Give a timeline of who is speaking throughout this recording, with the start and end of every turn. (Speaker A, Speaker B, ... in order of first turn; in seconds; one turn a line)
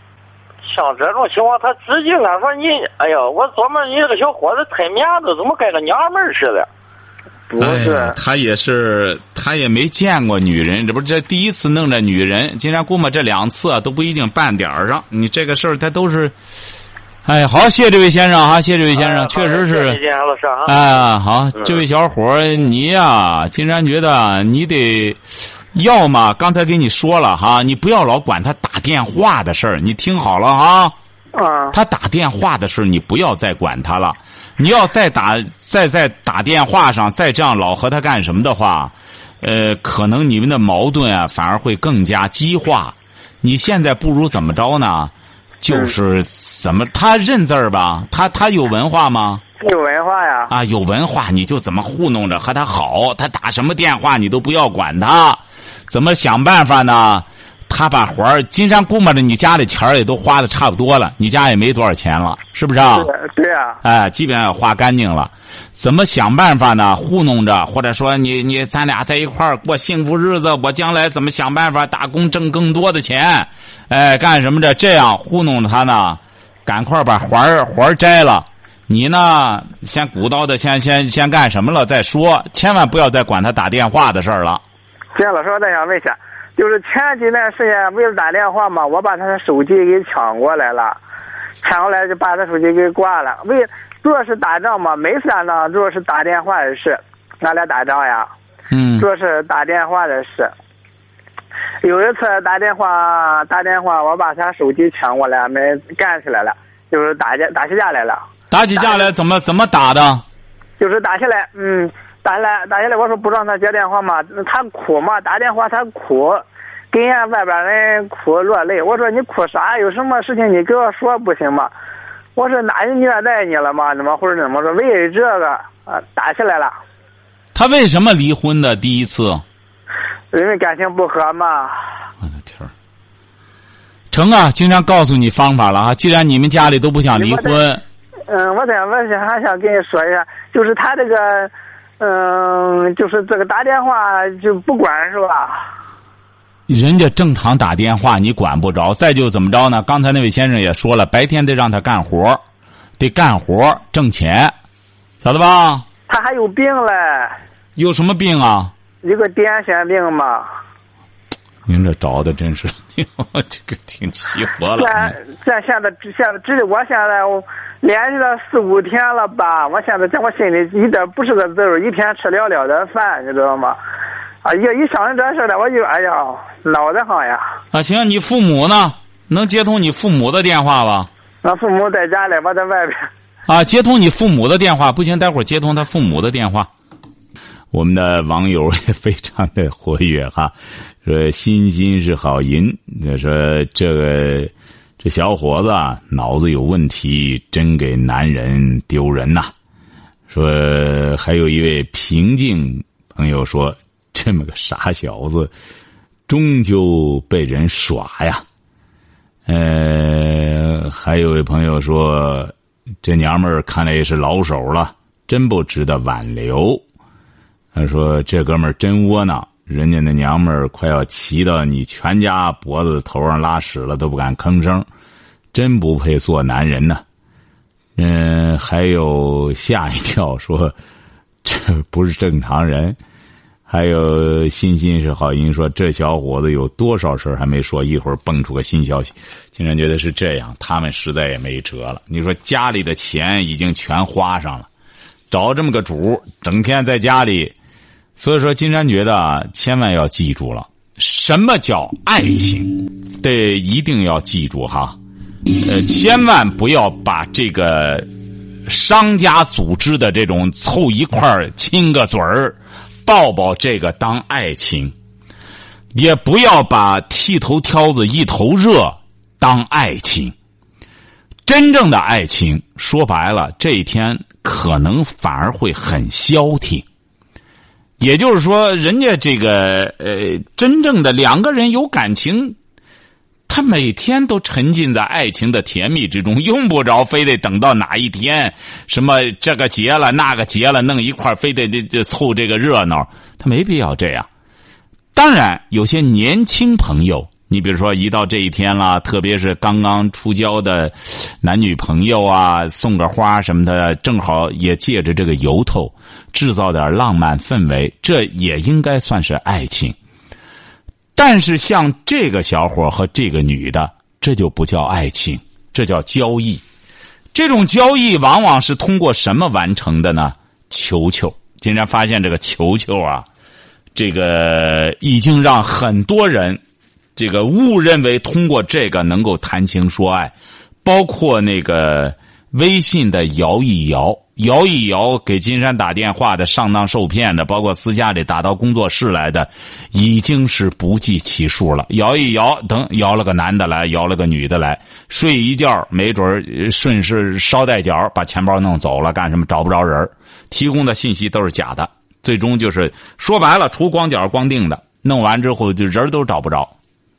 Speaker A: 0.7-6.7
Speaker B: 7.5-8.2
Speaker C: 7.6-16.3
Speaker C: 17.2-20.0
Speaker A: 18.9-20.8
Speaker C: 20.7-25.2
Speaker C: 25.7-30.9
Speaker B: 31.4-31.8
Speaker C: 31.7-49.4
Speaker B: 49.6-50.5
Speaker C: 50.5-63.1
Speaker B: 62.9-63.8
Speaker C: 63.8-84.6
Speaker B: 85.2-91.0
Speaker B: 91.6-98.3
Speaker C: 98.7-99.1
Speaker B: 99.0-100.5
Speaker B: 101.8-108.2
Speaker C: 108.5-110.2
Speaker B: 108.8-109.1
Speaker B: 110.8-121.7
Speaker B: 122.4-126.7
Speaker C: 127.5-129.4
Speaker B: 130.3-131.7
Speaker C: 132.2-132.7
Speaker C: 134.1-137.8
Speaker B: 137.1-137.6
Speaker B: 138.3-145.6
Speaker C: 146.7-152.4
Speaker C: 153.0-154.6
Speaker C: 155.2-155.9
Speaker B: 156.1-157.4
Speaker C: 157.8-158.7
Speaker B: 159.0-160.5
Speaker C: 161.7-165.2
Speaker B: 164.8-173.8
Speaker B: 174.4-177.4
Speaker C: 177.7-181.1
Speaker B: 181.4-183.1
Speaker C: 183.5-186.7
Speaker C: 187.7-199.5
Speaker C: 200.3-205.5
Speaker C: 206.3-208.4
Speaker C: 209.5-216.8
Speaker C: 217.7-224.9
Speaker C: 225.5-227.0
Speaker C: 228.0-230.8
Speaker C: 231.4-233.0
Speaker C: 233.7-244.7
Speaker C: 245.3-247.5
Speaker C: 248.2-255.0
Speaker C: 255.5-258.1
Speaker C: 258.7-264.9
Speaker C: 265.9-270.3
Speaker C: 271.4-276.9
Speaker C: 278.0-282.6
Speaker C: 283.5-294.3
Speaker C: 295.1-310.0
Speaker C: 311.2-316.6
Speaker C: 317.3-323.3
Speaker C: 323.9-326.6
Speaker C: 327.2-330.3
Speaker C: 330.9-356.7